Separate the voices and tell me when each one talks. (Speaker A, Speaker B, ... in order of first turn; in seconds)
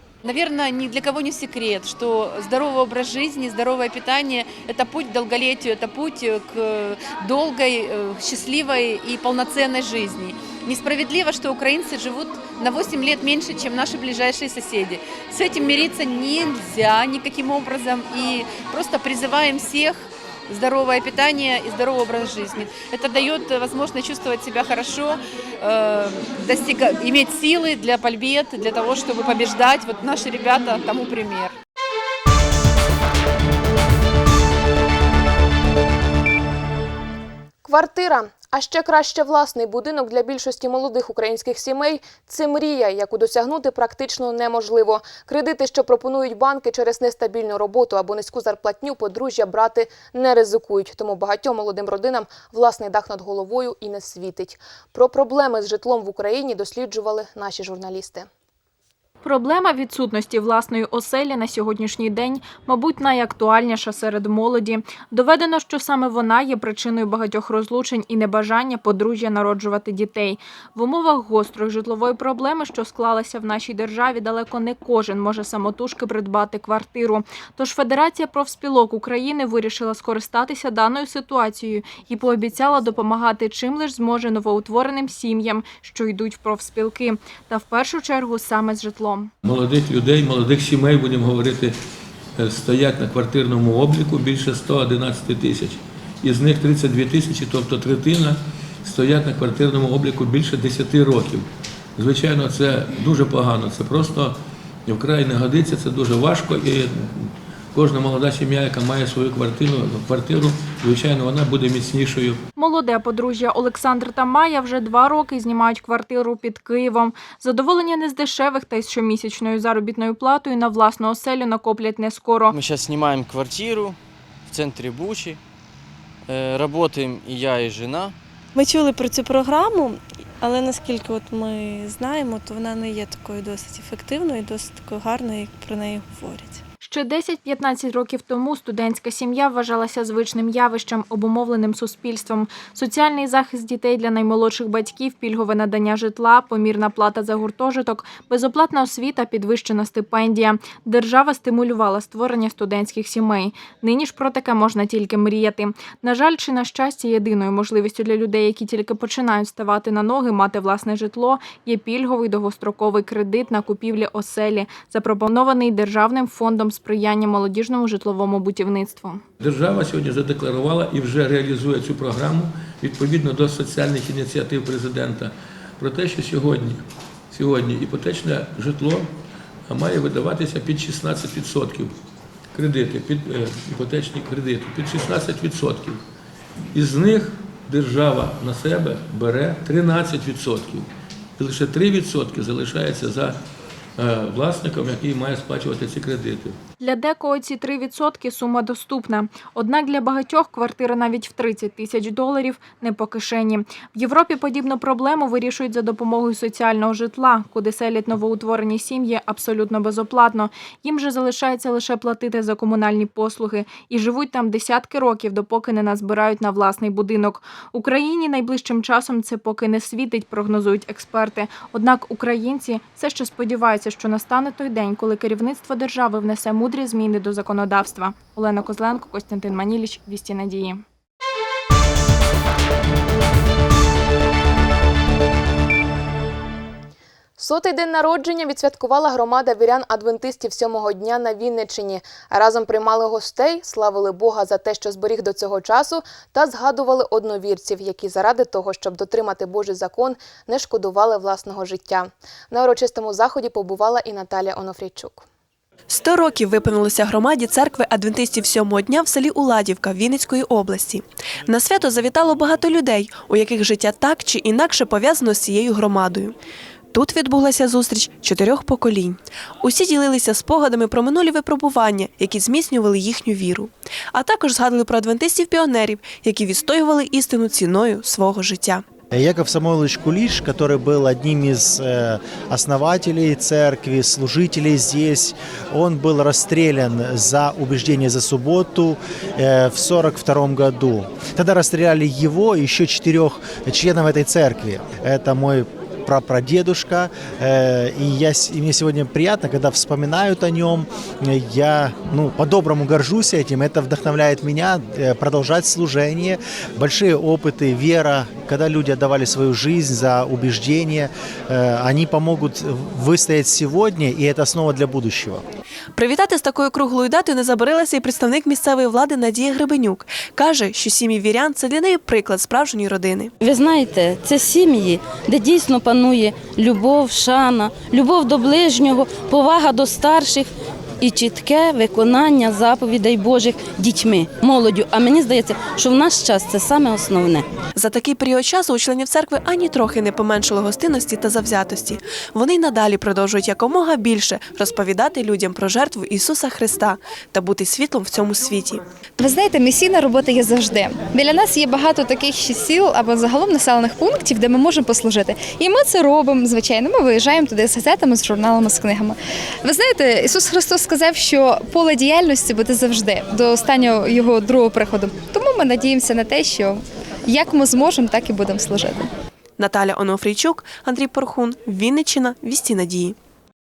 Speaker A: 0.2-31.6
Speaker B: 37.6-58.3, 237.4-255.2
Speaker C: 59.2-89.3, 112.6-122.5, 136.8-169.2, 196.8-230.8
Speaker D: 89.4-91.8, 92.4-112.4, 169.4-179.1, 179.7-181.9, 182.5-186.0, 186.7-193.4, 194.0-196.6
Speaker E: 122.5-124.0, 124.5-125.4, 126.3-128.2
Speaker F: 128.6-136.6
Speaker G: 255.9-266.4, 266.9-278.8, 315.9-323.3, 337.7-348.8, 369.6-373.2
Speaker H: 279.1-315.4
Speaker I: 323.4-337.4
Speaker J: 349.2-369.1